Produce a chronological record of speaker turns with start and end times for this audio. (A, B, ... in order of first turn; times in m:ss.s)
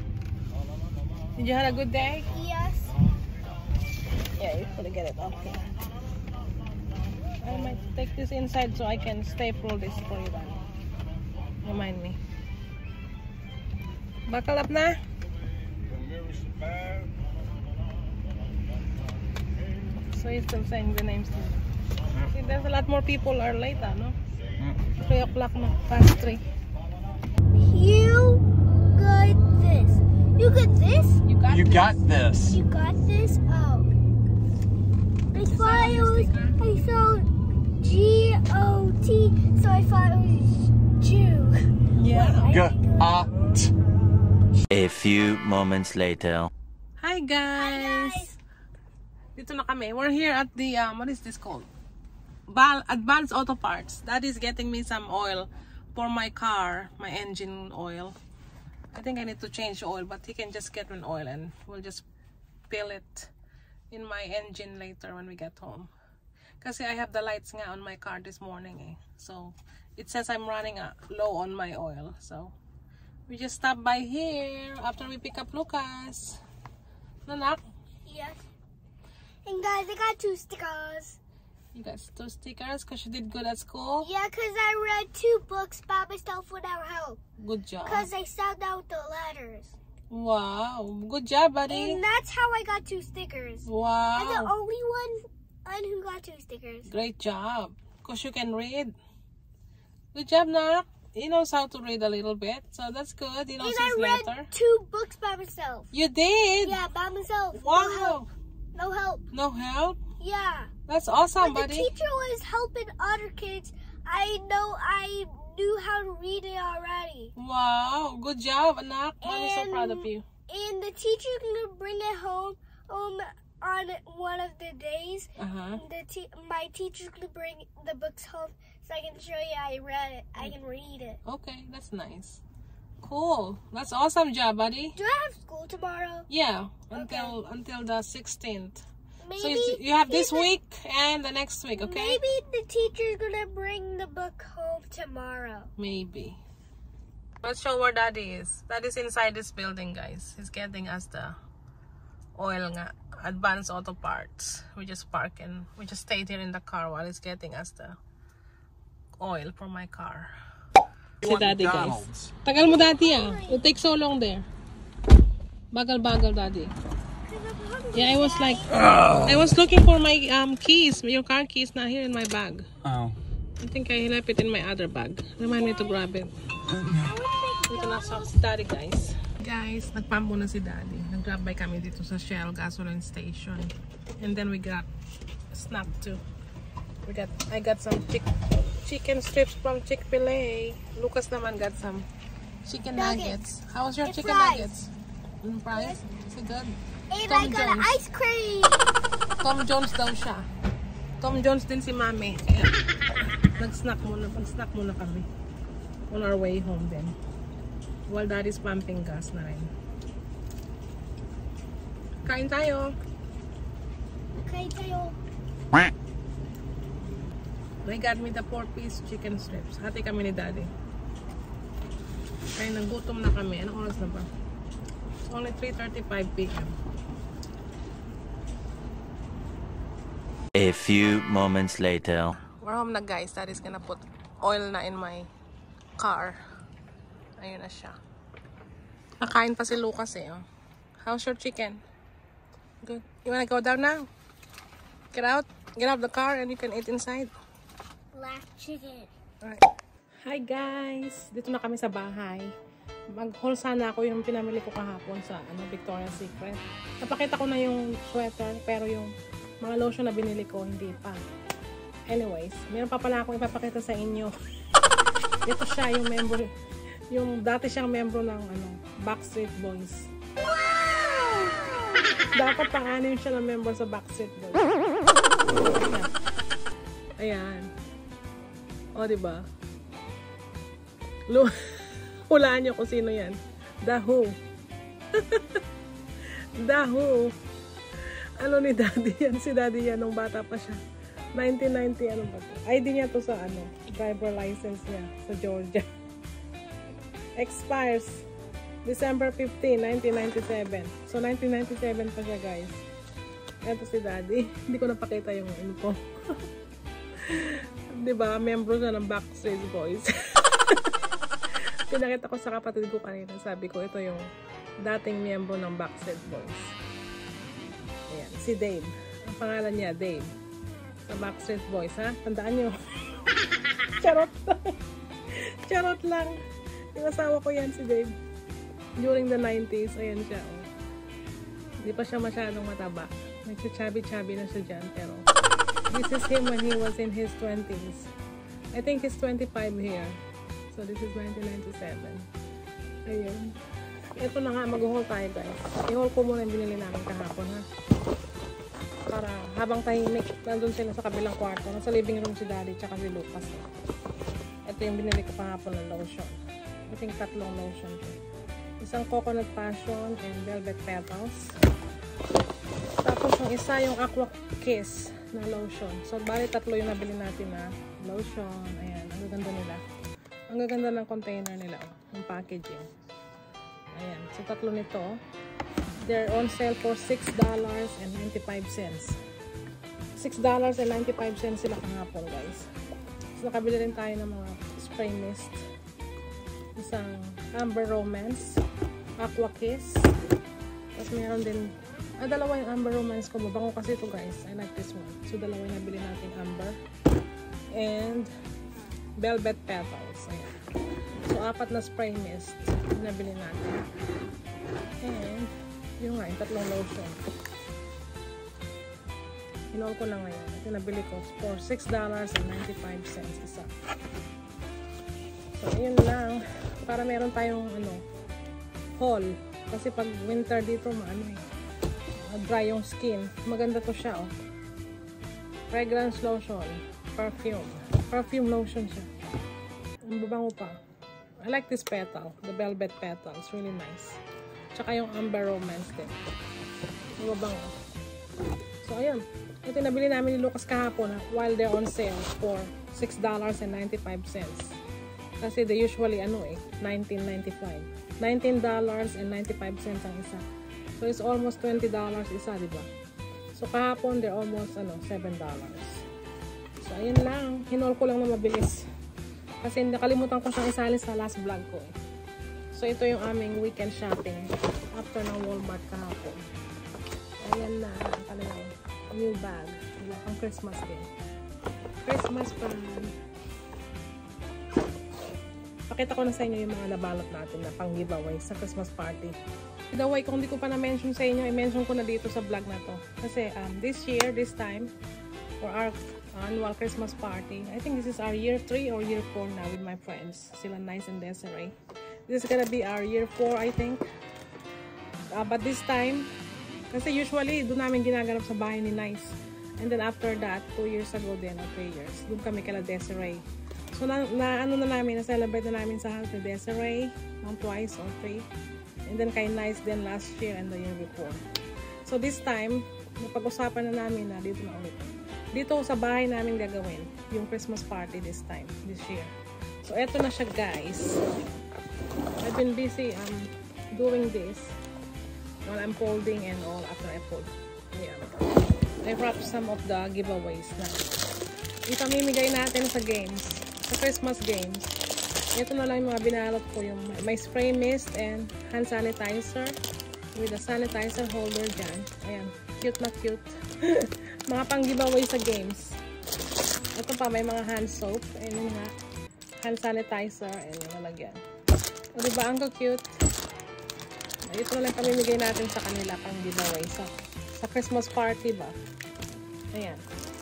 0:01.4-0:02.3 A
0:02.3-0:02.9 B
0:04.4-0:05.7 A
0:07.4-0:10.6 A
0:11.6-0:12.2 A
0:14.3-0:15.0 A
0:20.1-0:21.6 A
0:22.3-0:24.1 A
0:25.0-0:26.4 A
0:27.6-0:31.2 B
0:31.2-0:32.0 A
0:31.5-0:32.6 C
0:32.5-0:33.9 B
0:35.3-0:37.3 B
0:35.5-0:36.6 A
0:37.8-0:43.1 B
0:42.0-0:42.6 A
0:42.5-0:43.7 C
0:44.7-0:46.5 D
0:47.0-0:48.3 A
0:47.6-0:48.4 B
0:49.4-0:51.7 A
0:52.5-0:58.2 A
0:58.9-1:02.0 A
1:02.7-1:03.3 A
1:03.9-1:05.9 A
1:06.6-1:12.5 A
1:13.3-1:16.4 A
1:17.2-1:17.6 A
1:18.1-1:18.4 B
1:19.4-1:21.2 B
1:21.7-1:24.1 A
1:24.0-1:27.2 B
1:27.4-1:28.1 A
1:27.8-1:29.8 B
1:30.1-1:32.0 A
1:31.7-1:36.9 B
1:33.6-1:34.5 A
1:36.9-1:38.9 A
1:40.1-1:44.5 A
1:43.6-1:45.9 B
1:45.9-1:46.8 A
1:46.6-1:48.2 B
1:47.6-1:48.3 A
1:48.7-1:49.2 B
1:49.3-1:50.0 A
1:50.2-1:50.7 B
1:50.9-1:51.9 A
1:51.4-1:57.3 B
1:57.4-2:00.2 A
1:59.2-2:11.2 B
2:05.4-2:05.8 A
2:11.2-2:12.4 A
2:13.0-2:15.0 A
2:15.0-2:16.3 B
2:16.3-2:18.8 A
2:16.9-2:17.4 B
2:19.2-2:20.5 B
2:19.4-2:22.2 A
2:21.8-2:25.7 B
2:25.8-2:26.4 A
2:27.4-2:31.4 A
2:32.4-2:38.0 A
2:39.2-2:40.3 A
2:41.2-2:42.3 C
2:41.2-2:44.5 A
2:42.6-2:43.7 B
2:45.7-2:46.7 A
2:47.2-2:48.8 B
2:47.9-2:52.6 A
2:48.8-2:49.3 C
2:52.8-2:53.2 C
2:53.6-2:56.3 A
2:55.4-2:56.0 B
2:56.7-2:57.2 C
2:57.0-2:58.3 B
2:57.7-3:04.9 A
3:05.5-3:06.2 A
3:07.0-3:08.2 A
3:08.8-3:12.1 A
3:12.6-3:14.9 A
3:13.0-3:13.4 B
3:14.0-3:14.7 B
3:15.4-3:16.8 A
3:15.7-3:16.0 B
3:17.1-3:18.9 B
3:17.3-3:18.0 A
3:19.4-3:20.5 A
3:21.2-3:22.7 A
3:23.3-3:25.3 A
3:26.1-3:27.2 A
3:28.1-3:29.7 A
3:32.2-3:32.9 A
3:34.4-3:35.2 B
3:37.8-3:40.7 A
3:42.6-3:44.3 A
3:45.2-3:46.8 A
3:50.6-3:52.4 D
3:52.4-3:55.3 A
3:56.0-3:56.4 A
3:57.4-3:58.0 A
3:59.2-4:00.4 A
4:01.0-4:01.8 A
4:02.8-4:04.1 A
4:05.1-4:07.3 A
4:08.1-4:09.1 B
4:09.4-4:09.7 A
4:10.2-4:12.5 A
4:13.1-4:21.2 A
4:22.1-4:24.3 A
4:25.5-4:26.5 A
4:27.1-4:30.1 A
4:32.3-4:34.9 A
4:35.7-4:36.1 A
4:37.2-4:37.7 A
4:39.0-4:39.4 A
4:41.3-4:44.4 A
4:45.1-4:45.6 A
4:46.6-4:47.4 A
4:48.0-4:50.8 A
4:51.3-4:55.9 A
4:57.4-4:58.2 A
4:58.8-5:02.8 A
5:03.6-5:06.4 A
5:07.2-5:10.9 A
5:11.9-5:14.3 A
5:14.8-5:16.7 A
5:18.1-5:20.3 A
5:21.0-5:23.2 A
5:23.9-5:24.8 A
5:25.3-5:26.4 A
5:27.0-5:28.1 A
5:29.0-5:30.7 A
5:31.8-5:35.2 A
5:35.9-5:38.1 A
5:38.7-5:40.2 A
5:40.7-5:42.3 A
5:43.1-5:43.5 A
5:44.2-5:47.6 A
5:49.1-5:53.6 A
5:54.6-5:56.4 A
5:56.9-5:58.2 A
5:58.8-6:01.5 A
6:03.0-6:09.8 A
6:10.5-6:12.9 A
6:13.9-6:15.2 A
6:16.0-6:19.2 A
6:20.2-6:22.7 A
6:23.3-6:25.6 A
6:26.8-6:28.6 A
6:29.2-6:30.1 A
6:31.0-6:36.8 A
6:37.7-6:38.3 A
6:39.2-6:40.6 A
6:41.2-6:43.8 A
6:45.0-6:47.2 A
6:49.7-6:53.7 A
6:55.6-6:58.0 A
6:59.0-7:01.4 A
7:02.2-7:04.3 A
7:05.7-7:09.1 A
7:10.1-7:10.8 A
7:11.4-7:14.2 A
7:14.7-7:16.2 A
7:17.2-7:17.8 A
7:18.8-7:24.8 A
7:25.4-7:30.4 A
7:31.0-7:32.9 A
7:33.6-7:36.0 A
7:36.8-7:38.9 A
7:39.6-7:42.0 A
7:42.7-7:46.4 A
7:47.4-7:51.1 A
7:52.0-7:53.1 A
7:55.9-7:59.4 A
7:59.9-8:04.9 A
8:05.6-8:11.8 A
8:12.3-8:14.0 A
8:15.3-8:16.3 A
8:16.9-8:28.5 A
8:29.1-8:31.4 A
8:32.0-8:41.2 A
8:42.4-8:44.7 A
8:45.6-8:48.5 A
8:49.0-8:51.0 A
8:51.9-8:55.0 A
8:55.5-8:59.8 A
9:00.3-9:06.0 A
9:07.0-9:08.9 A
9:09.6-9:11.4 A
9:12.2-9:13.1 A
9:14.5-9:18.8 A
9:19.7-9:20.0 A